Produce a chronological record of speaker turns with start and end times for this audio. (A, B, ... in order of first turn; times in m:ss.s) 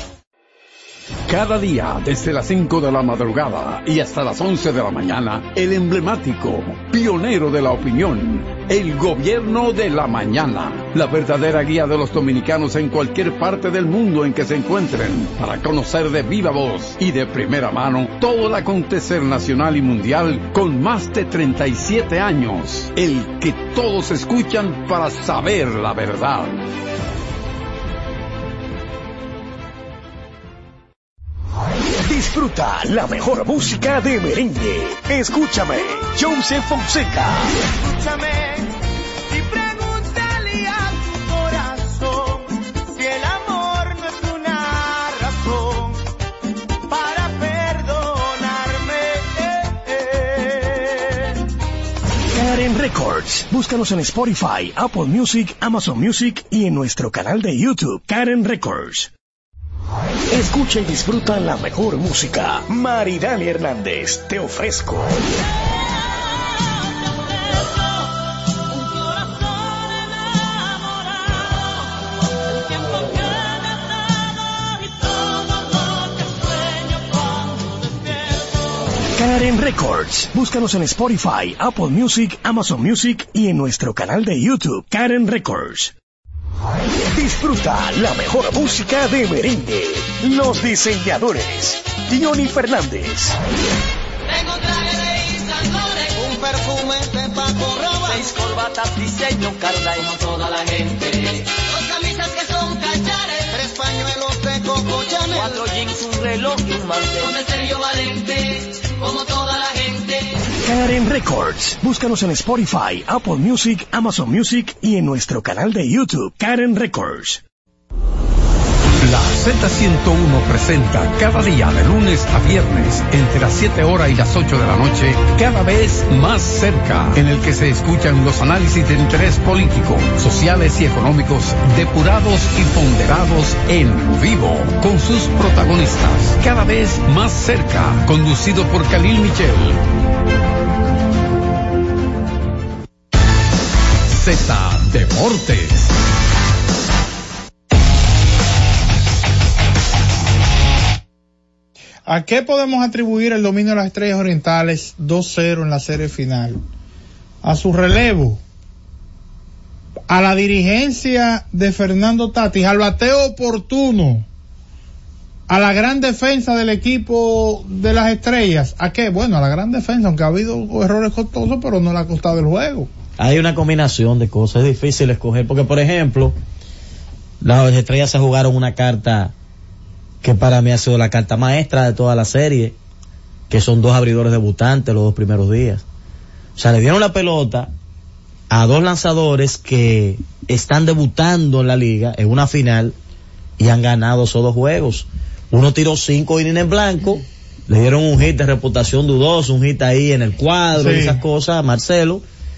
0:01.3-0:26.6 A
0:32.0-0:37.6 B
0:37.8-0:38.5 C
0:39.6-0:42.3 C
0:43.0-0:45.9 C
0:46.9-0:48.9 C
0:52.3-0:59.1 B
1:00.3-1:05.2 B
1:19.2-1:25.9 B
1:27.1-1:33.4 B
1:34.3-1:35.4 C
1:36.2-1:38.4 C
1:39.5-1:39.9 C
1:41.8-1:47.1 C
1:50.6-1:57.4 B
1:59.0-2:19.8 A
2:24.1-2:26.0 A
2:32.1-2:36.6 D
2:37.4-2:38.4 D
2:40.1-2:44.3 D
2:45.5-2:52.9 D
2:53.2-2:56.4 E
2:57.4-2:59.3 E
3:00.2-3:02.8 E
3:03.5-3:05.8 E
3:06.6-3:07.7 E
3:08.5-3:13.0 E
3:13.6-3:22.2 E
3:20.8-3:21.2 D